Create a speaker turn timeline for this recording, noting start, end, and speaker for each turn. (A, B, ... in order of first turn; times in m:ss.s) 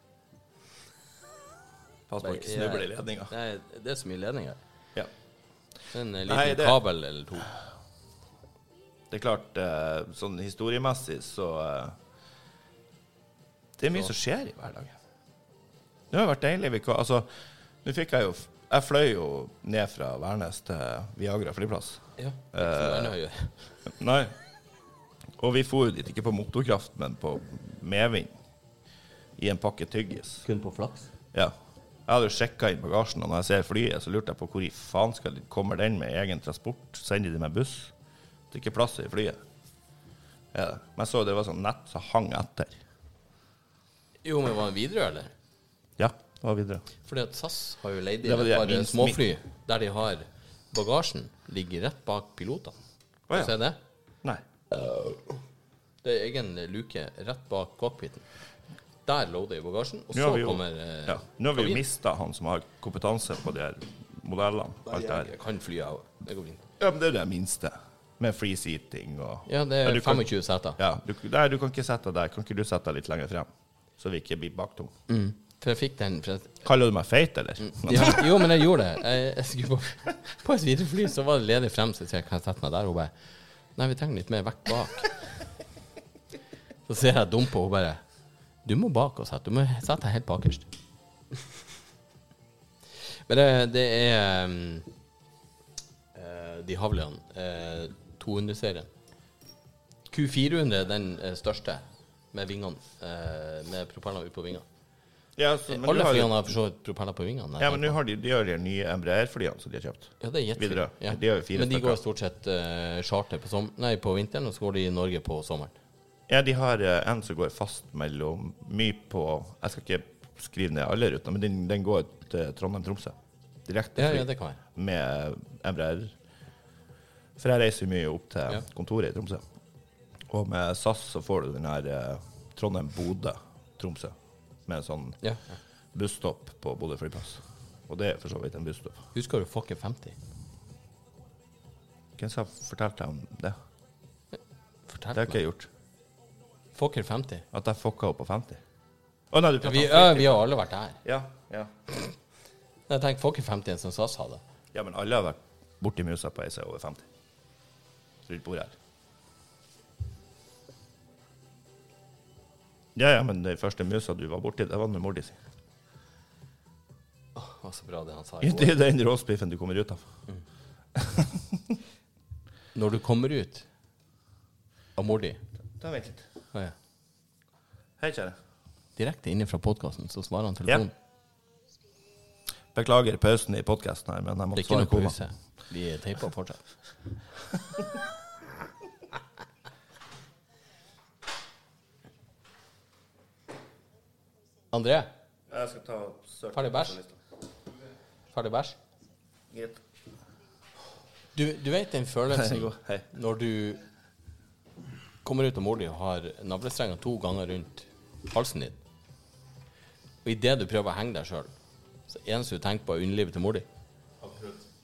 0:02.1-0:03.3 A
0:02.2-0:04.6 B
0:05.9-0:07.5 B
0:06.3-0:06.8 A
0:09.1-0:12.0 A
0:13.8-0:14.9 A
0:16.1-0:17.3 A
0:17.8-0:23.1 A
0:22.2-0:23.7 B
0:24.0-0:24.3 A
0:25.4-0:28.3 A
0:29.4-0:30.4 A
0:30.4-0:31.1 B
0:32.1-0:37.9 A
0:38.5-0:39.4 A
0:40.5-0:42.8 A
0:44.2-0:45.3 B
0:46.0-0:46.8 A
0:47.0-0:52.7 B
0:48.2-0:49.2 A
0:53.3-0:53.5 A
0:53.3-0:53.8 B
0:54.8-0:55.2 B
0:56.0-0:58.2 B
0:59.0-1:01.8 B
1:00.1-1:05.3 A
1:04.8-1:06.7 B
1:06.8-1:10.3 A
1:09.4-1:10.8 B
1:10.8-1:14.9 A
1:15.1-1:16.5 B
1:16.6-1:18.4 A
1:17.6-1:23.1 B
1:23.7-1:25.4 B
1:26.9-1:28.0 B
1:28.6-1:30.7 B
1:33.1-1:34.9 B
1:36.1-1:38.9 B
1:40.1-1:44.6 B
1:45.4-1:46.4 A
1:45.7-1:48.0 B
1:47.6-1:52.0 A
1:50.2-1:55.7 B
1:56.3-2:03.1 A
2:03.6-2:06.1 A
2:04.0-2:04.6 B
2:07.4-2:09.4 A
2:10.3-2:14.1 A
2:14.7-2:15.2 A
2:15.9-2:19.0 A
2:19.1-2:20.2 B
2:22.2-2:23.6 A
2:24.9-2:25.4 B
2:25.1-2:25.7 A
2:26.7-2:27.4 B
2:27.5-2:28.6 A
2:29.3-2:30.4 A
2:29.6-2:31.0 B
2:31.0-2:31.7 A
2:32.9-2:34.4 B
2:34.7-2:37.0 A
2:38.3-2:38.7 A
2:43.0-2:45.4 A
2:47.3-2:48.8 B
2:48.4-2:50.0 A
2:51.0-2:51.6 A
2:52.7-2:53.7 B
2:55.0-2:55.4 B
2:55.8-2:56.2 A
2:58.0-2:58.4 A
2:59.0-3:00.9 B
3:02.7-3:05.2 A
3:04.5-3:06.6 B
3:14.7-3:15.1 B
3:15.5-3:17.1 A
3:16.5-3:17.0 B
3:18.3-3:18.8 B
3:19.5-3:19.8 A
3:21.3-3:23.8 B
3:22.4-3:23.0 A
3:25.2-3:28.8 B
3:30.2-3:31.5 B
3:32.1-3:33.6 B